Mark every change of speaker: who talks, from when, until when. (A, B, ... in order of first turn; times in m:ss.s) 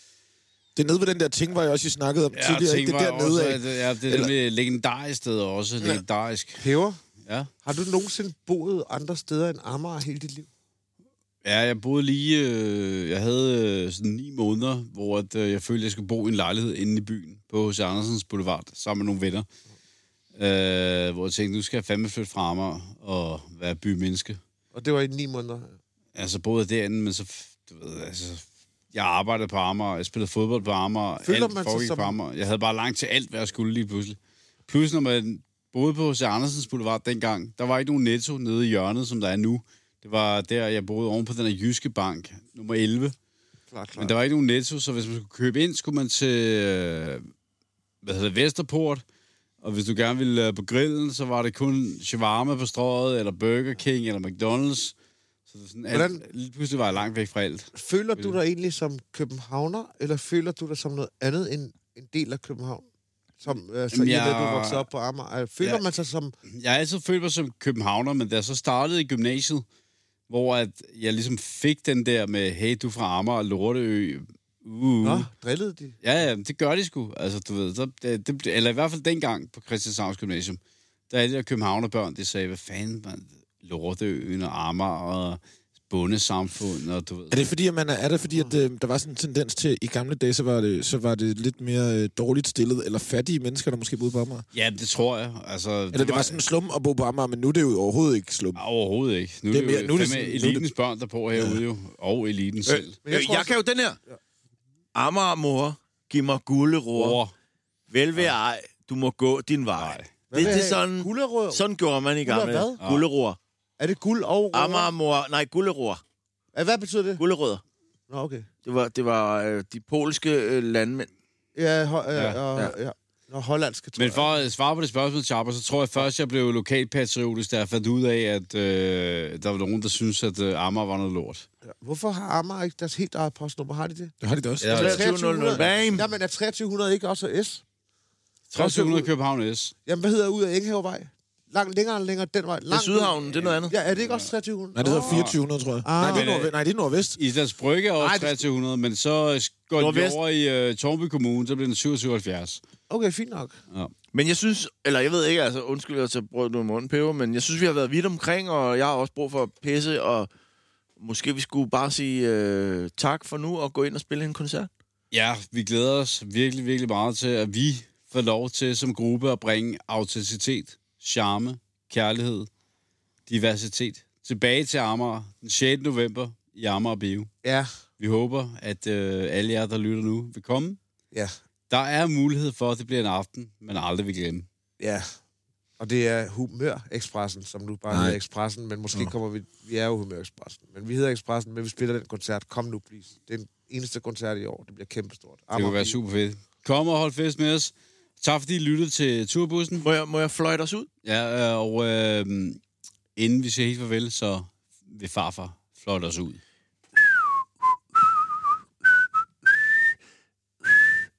0:00.8-0:04.3 A
0:02.3-0:06.6 B
0:06.6-0:07.0 C
0:07.2-0:07.5 B
0:07.6-0:10.5 C
0:11.4-0:19.5 B
0:20.4-0:24.4 B
0:24.7-0:25.8 C
0:26.2-0:43.2 B
0:31.2-0:32.2 C
0:43.7-0:44.2 C
0:44.0-0:47.3 B
0:48.0-0:49.0 B
0:49.6-0:54.9 B
0:55.5-0:58.4 B
0:55.9-0:56.2 C
0:57.8-1:02.9 C
1:03.4-1:06.4 C
1:03.9-1:04.8 B
1:06.5-1:09.6 B
1:10.3-1:15.3 B
1:15.0-1:16.0 C
1:16.0-1:20.6 B
1:21.1-1:27.4 B
1:27.3-1:34.5 A
1:34.5-1:36.4 B
1:35.9-1:38.6 A
1:38.6-1:43.0 B
1:39.5-1:40.7 A
1:41.4-1:41.6 A
1:42.7-1:44.0 D
1:43.0-1:44.2 C
1:45.0-1:47.2 D
1:47.0-1:47.3 B
1:47.9-1:53.4 D
1:49.8-1:50.6 B
1:50.3-1:51.6 C
1:52.2-1:52.8 C
1:52.8-1:53.1 B
1:53.8-1:54.9 C
1:54.5-1:56.0 D
1:56.5-1:57.2 C
1:57.2-1:57.6 D
1:58.1-1:58.5 C
1:58.6-2:01.1 D
2:01.6-2:04.4 C
2:04.0-2:11.5 B
2:11.7-2:14.1 C
2:14.2-2:15.0 A
2:14.6-2:15.9 B
2:14.7-2:16.1 D
2:14.7-2:17.6 C
2:18.5-2:19.7 B
2:18.6-2:19.1 C
2:19.9-2:25.3 C
2:22.7-2:23.7 D
2:23.4-2:24.3 B
2:24.8-2:27.2 A
2:25.0-2:25.4 B
2:25.8-2:26.5 C
2:26.0-2:26.5 B
2:27.2-2:32.6 B
2:28.0-2:28.4 C
2:29.8-2:30.2 D
2:32.9-2:33.6 C
2:34.1-2:40.3 D
2:41.0-2:44.7 D
2:45.1-2:52.5 B
2:53.3-2:57.3 B
2:57.4-2:57.7 C
2:58.0-3:00.8 B
3:01.7-3:04.5 B
3:04.8-3:05.1 C
3:05.8-3:16.0 C
3:07.9-3:08.2 A
3:15.5-3:19.9 B
3:19.8-3:20.9 D
3:21.0-3:22.6 B
3:23.2-3:26.4 B